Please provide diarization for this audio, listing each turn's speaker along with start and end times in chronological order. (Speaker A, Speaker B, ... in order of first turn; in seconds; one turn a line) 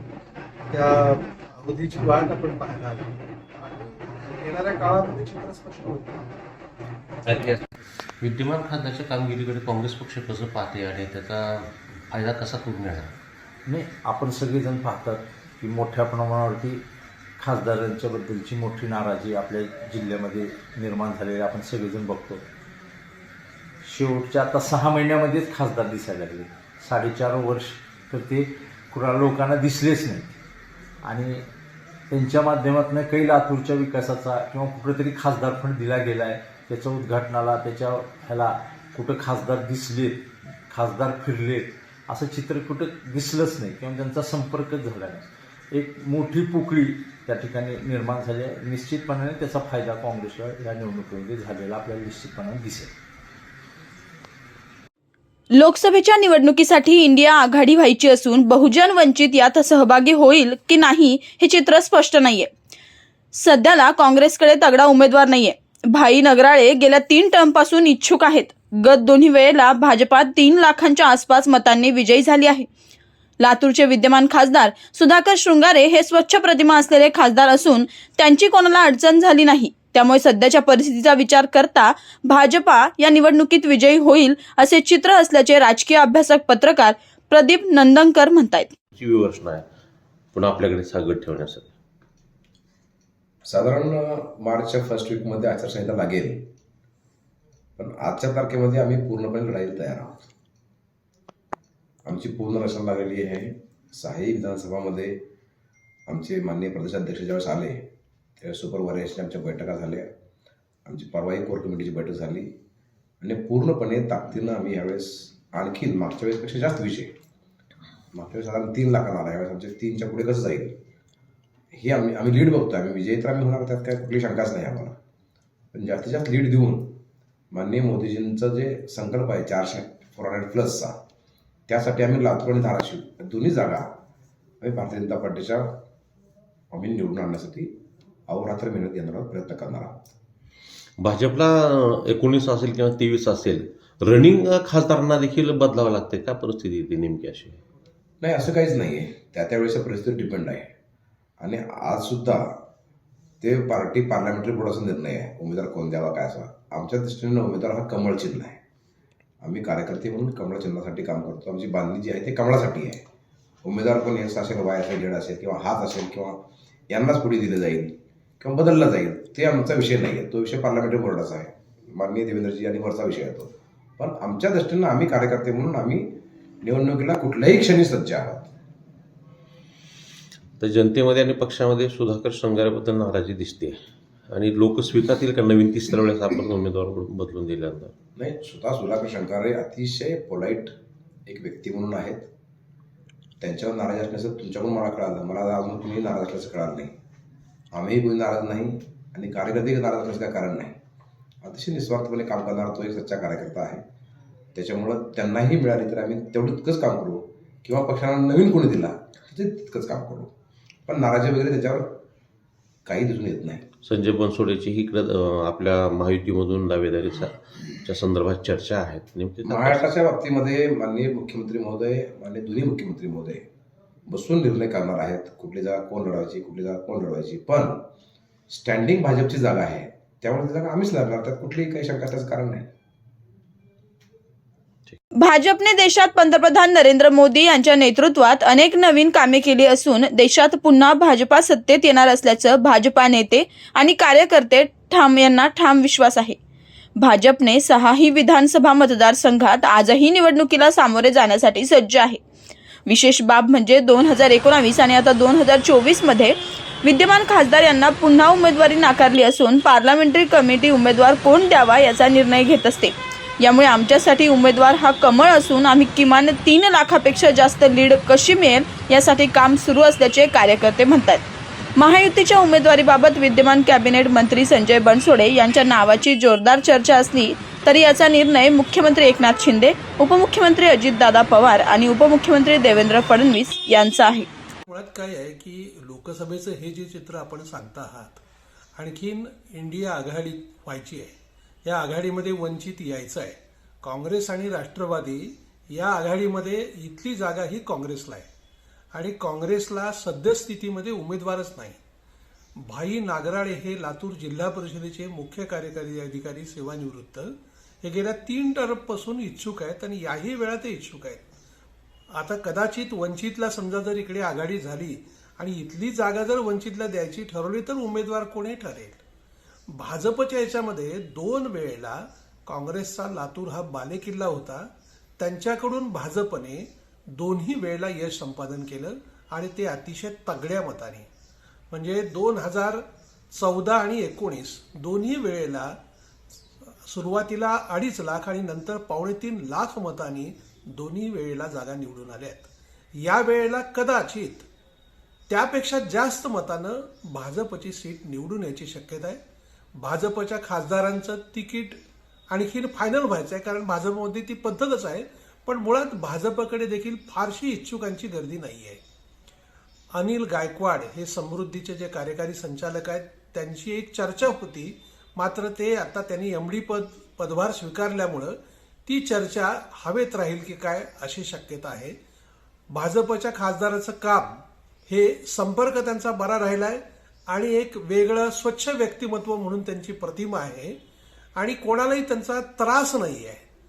Speaker A: 0.7-6.4
Speaker B: 8.2-13.1
Speaker C: 13.7-16.9
Speaker C: 17.4-22.5
Speaker C: 23.8-30.4
Speaker C: 31.0-31.5
Speaker C: 32.1-52.9
Speaker D: 55.6-62.5
Speaker D: 63.4-72.7
Speaker D: 73.4-88.7
Speaker B: 89.0-89.6
Speaker B: 90.3-91.7
Speaker E: 93.5-96.5
Speaker E: 97.8-100.3
Speaker E: 102.1-105.2
Speaker E: 106.1-110.1
Speaker E: 110.8-112.5
Speaker E: 113.2-117.1
Speaker E: 118.1-120.8
Speaker E: 121.7-125.0
Speaker E: 125.7-127.0
Speaker E: 127.5-130.9
Speaker E: 131.7-133.9
Speaker E: 134.6-135.8
Speaker E: 136.7-137.8
Speaker E: 138.3-140.0
Speaker B: 141.0-147.6
Speaker E: 148.2-150.7
Speaker E: 151.4-152.4
Speaker E: 153.4-158.6
Speaker E: 159.4-163.0
Speaker E: 163.6-178.5
Speaker B: 180.6-183.8
Speaker B: 184.3-187.9
Speaker E: 188.2-190.7
Speaker E: 191.3-192.3
Speaker E: 193.4-196.9
Speaker E: 197.7-200.8
Speaker E: 201.4-203.8
Speaker E: 204.6-210.3
Speaker E: 210.9-212.0
Speaker E: 212.8-213.7
Speaker B: 213.8-219.9
Speaker E: 219.4-223.4
Speaker E: 224.1-227.8
Speaker E: 228.5-232.7
Speaker D: 235.2-246.4
Speaker D: 247.0-252.2
Speaker D: 252.9-271.2
Speaker D: 271.8-284.3
Speaker F: 284.7-288.2
Speaker F: 288.8-291.1
Speaker F: 291.6-298.3
Speaker F: 298.9-301.8
Speaker F: 302.6-311.3
Speaker F: 312.1-319.0
Speaker F: 319.7-324.7
Speaker F: 325.2-331.1
Speaker F: 331.7-335.7
Speaker F: 336.9-344.5
Speaker F: 345.3-349.2
Speaker F: 349.8-351.8
Speaker F: 352.3-358.8
Speaker F: 359.9-371.9
Speaker F: 372.7-380.8
Speaker F: 381.4-383.4